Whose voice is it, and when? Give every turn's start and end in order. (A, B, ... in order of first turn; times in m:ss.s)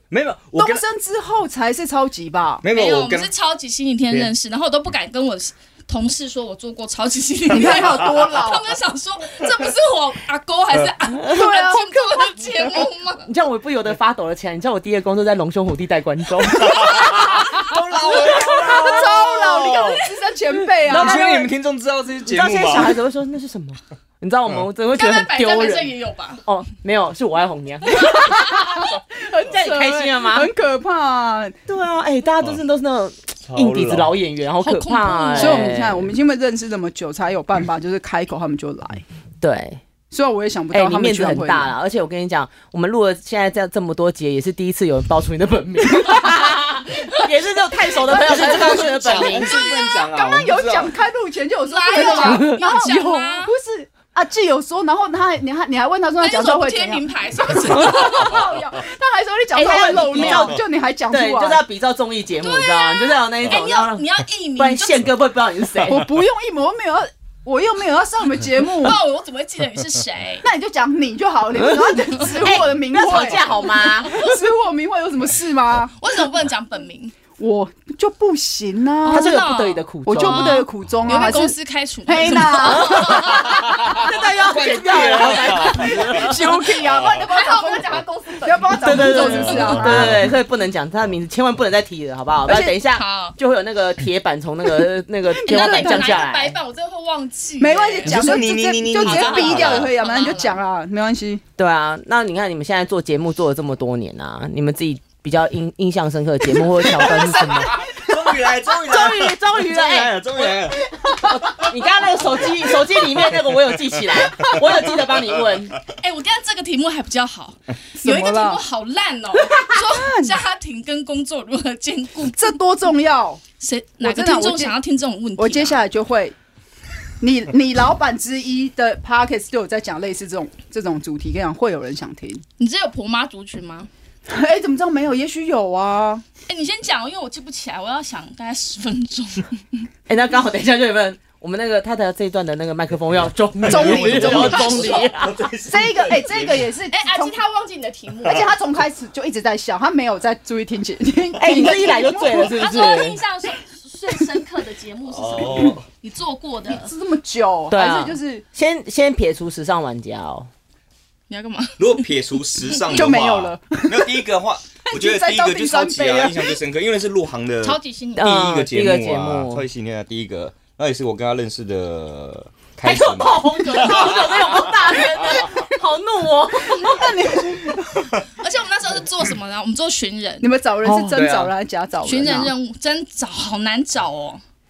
0:00.1-0:00.8 A
0:00.6-0:02.6 B
0:02.6-0:03.3 A
0:02.6-0:13.3 C
0:07.5-0:08.7 B
0:11.2-0:11.5 D
0:11.3-0:12.0 B
0:13.3-0:16.8 D
0:16.6-0:20.0 A
0:17.4-0:17.7 C
0:18.2-0:21.5 B
0:18.2-0:19.2 C
0:20.9-0:21.3 D
0:20.9-0:23.0 A
0:22.3-0:26.0 D
0:24.9-0:26.4 C
0:26.5-0:28.0 D
0:27.9-0:28.9 C
0:28.0-0:31.6 B
0:29.4-0:30.5 D
0:31.7-0:36.1 D
0:33.4-0:34.2 A
0:34.6-0:35.7 C
0:35.3-0:39.0 B
0:39.4-0:39.8 D
0:40.1-0:41.7 B
0:40.7-0:49.6 D
0:47.0-0:47.4 C
0:47.9-1:01.6 B
0:48.1-0:48.4 C
0:48.1-0:50.9 A
0:49.1-0:49.9 C
0:51.6-0:53.5 C
0:51.9-0:52.6 D
0:56.2-0:58.4 C
0:59.5-1:06.0 D
1:00.2-1:00.5 A
1:02.4-1:05.1 C
1:05.8-1:09.0 B
1:08.8-1:10.4 C
1:10.4-1:16.0 B
1:11.6-1:14.1 D
1:14.1-1:14.4 C
1:16.0-1:17.2 C
1:17.4-1:19.4 B
1:19.0-1:23.6 C
1:19.1-1:20.6 D
1:20.0-1:23.3 B
1:22.5-1:26.5 D
1:23.5-1:27.1 A
1:25.4-1:30.1 B
1:27.0-1:30.0 C
1:28.8-1:36.6 D
1:29.5-1:30.3 A
1:32.5-1:32.8 B
1:32.8-1:33.4 C
1:35.4-1:36.2 B
1:35.5-1:38.4 C
1:37.6-1:41.4 B
1:38.0-1:39.9 A
1:38.9-1:40.6 C
1:41.6-1:47.7 D
1:46.9-1:50.9 A
1:47.0-1:48.1 B
1:48.9-1:50.1 D
1:51.1-1:55.8 D
1:54.7-1:55.3 A
1:55.9-2:02.5 C
1:58.0-1:58.6 B
1:59.6-2:00.4 B
2:02.4-2:03.4 B
2:03.6-2:05.8 C
2:04.0-2:04.8 B
2:05.4-2:06.4 B
2:07.2-2:12.4 B
2:12.6-2:13.9 C
2:14.3-2:16.2 B
2:16.5-2:19.9 C
2:20.1-2:25.4 D
2:23.6-2:26.7 A
2:23.7-2:25.1 B
2:24.2-2:25.0 C
2:25.6-2:27.4 B
2:26.9-2:28.6 C
2:28.2-2:28.5 A
2:28.2-2:32.6 B
2:31.4-2:32.1 A
2:31.4-2:33.2 D
2:32.2-2:36.9 C
2:35.1-2:35.9 A
2:36.7-2:38.5 B
2:37.7-2:40.5 D
2:41.3-2:42.9 C
2:41.8-2:55.5 A
2:42.9-2:44.2 B
2:44.8-2:46.6 B
2:47.6-2:48.4 C
2:48.2-2:49.6 D
2:52.8-2:57.1 D
2:56.9-2:57.8 B
2:57.8-2:58.2 A
2:58.4-3:00.5 C
3:00.4-3:02.5 B
3:00.8-3:01.2 D
3:01.1-3:01.5 A
3:02.0-3:04.4 C